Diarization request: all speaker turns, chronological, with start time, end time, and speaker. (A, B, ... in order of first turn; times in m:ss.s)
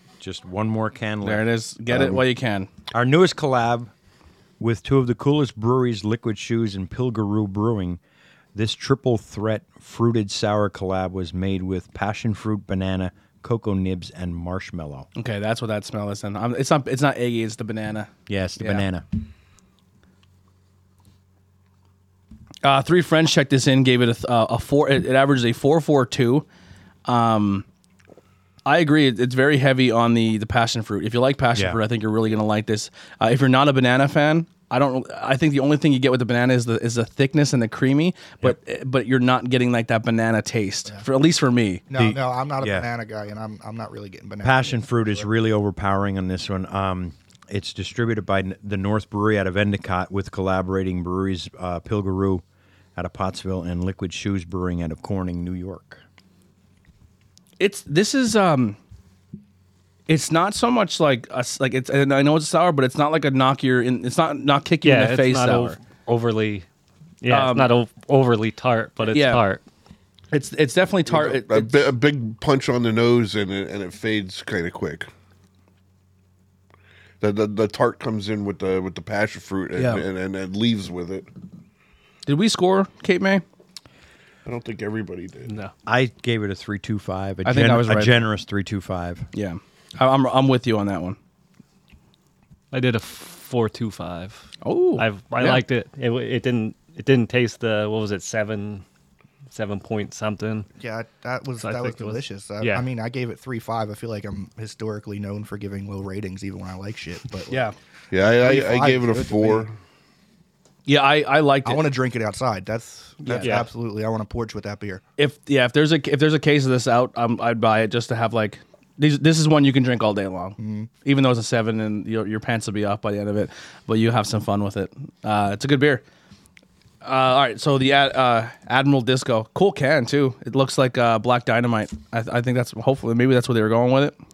0:00.2-0:02.2 A
0:01.2-0:02.7 B
0:02.9-0:03.9 A
0:04.6-0:08.0 A
0:08.6-0:15.1 A
0:15.2-0:18.8 B
0:18.3-0:19.1 A
0:22.6-0:26.4 B
0:27.1-0:27.6 B
0:28.7-0:41.8 B
0:41.9-0:45.3 C
0:42.0-0:42.9 A
0:44.4-0:52.4 A
0:53.0-0:56.0 A
0:57.6-0:58.8 B
1:00.1-1:05.8 B
1:04.8-1:06.7 D
1:07.2-1:09.6 D
1:07.3-1:07.7 B
1:09.1-1:09.4 B
1:10.3-1:11.9 B
1:11.1-1:15.1 E
1:17.2-1:21.3 E
1:19.8-1:20.0 B
1:22.3-1:23.4 B
1:24.5-1:25.5 E
1:25.9-1:29.3 A
1:27.4-1:28.2 B
1:29.3-1:31.2 B
1:32.7-1:38.8 D
1:34.6-1:35.6 B
1:39.5-1:40.7 D
1:40.8-1:47.6 C
1:41.6-1:42.9 D
1:47.5-1:47.8 B
1:48.1-1:49.8 E
1:48.2-1:49.7 C
1:50.9-1:51.8 B
1:51.6-1:55.0 C
1:53.4-1:53.7 D
1:55.2-2:06.0 B
2:00.6-2:00.9 C
2:07.0-2:14.2 B